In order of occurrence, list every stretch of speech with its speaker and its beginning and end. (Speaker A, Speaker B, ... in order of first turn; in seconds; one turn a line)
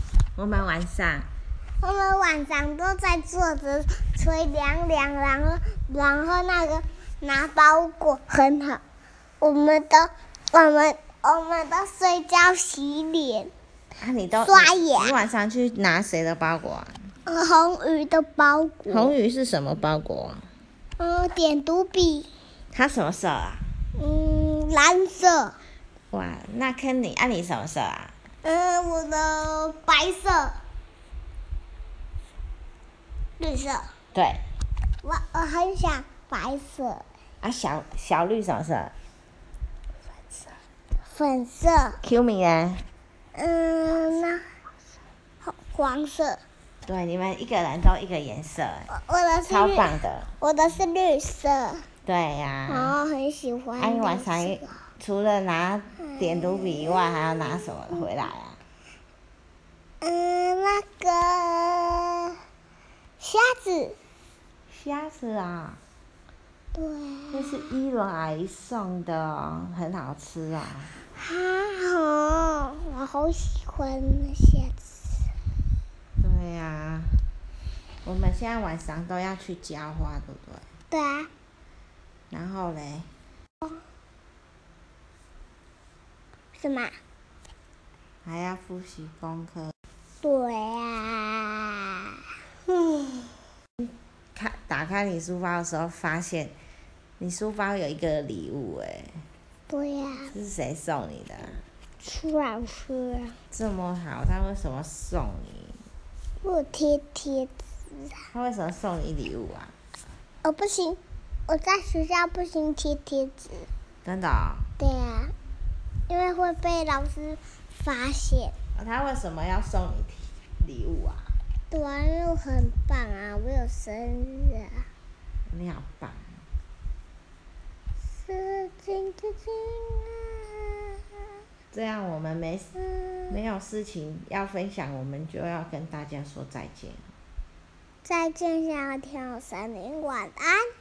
Speaker A: 0.3-1.3
Speaker B: 1.8-8.8
Speaker B: 9.4-13.5
Speaker A: 13.9-16.9
Speaker B: 14.4-15.2
Speaker B: 17.2-19.1
Speaker A: 18.9-20.4
Speaker B: 21.0-22.3
Speaker A: 22.7-23.6
Speaker B: 23.9-25.6
Speaker A: 26.1-28.1
Speaker B: 28.4-30.6
Speaker B: 33.4-33.9
Speaker A: 34.1-34.4
Speaker B: 35.0-37.0
Speaker A: 37.4-38.9
Speaker B: 41.1-42.0
Speaker A: 42.0-42.9
Speaker B: 43.3-44.4
Speaker B: 45.4-46.4
Speaker A: 46.9-48.9
Speaker B: 48.9-49.9
Speaker A: 49.5-50.3
Speaker B: 50.4-51.9
Speaker A: 52.0-52.9
Speaker B: 52.7-54.8
Speaker A: 53.8-58.6
Speaker B: 56.0-57.3
Speaker B: 60.0-62.3
Speaker B: 63.2-64.0
Speaker A: 64.7-65.8
Speaker B: 66.7-67.7
Speaker A: 67.3-70.9
Speaker B: 71.1-74.8
Speaker A: 76.2-77.2
Speaker A: 78.0-80.6
Speaker B: 80.9-81.3
Speaker A: 82.3-83.1
Speaker B: 86.5-86.9
Speaker A: 88.2-89.7
Speaker B: 90.2-92.0
Speaker A: 93.8-96.5
Speaker A: 97.2-99.2
Speaker B: 99.7-100.3
Speaker A: 100.3-101.6
Speaker B: 102.0-103.4
Speaker A: 103.5-105.8
Speaker B: 106.4-108.2
Speaker A: 108.3-109.7
Speaker B: 110.4-113.7
Speaker A: 114.0-114.7
Speaker B: 114.8-115.3
Speaker B: 116.1-118.5
Speaker A: 118.7-121.3
Speaker B: 121.7-124.9
Speaker A: 125.5-126.3
Speaker B: 128.1-131.0
Speaker A: 131.7-132.7
Speaker B: 132.9-133.3
Speaker A: 133.3-137.0
Speaker B: 138.0-140.7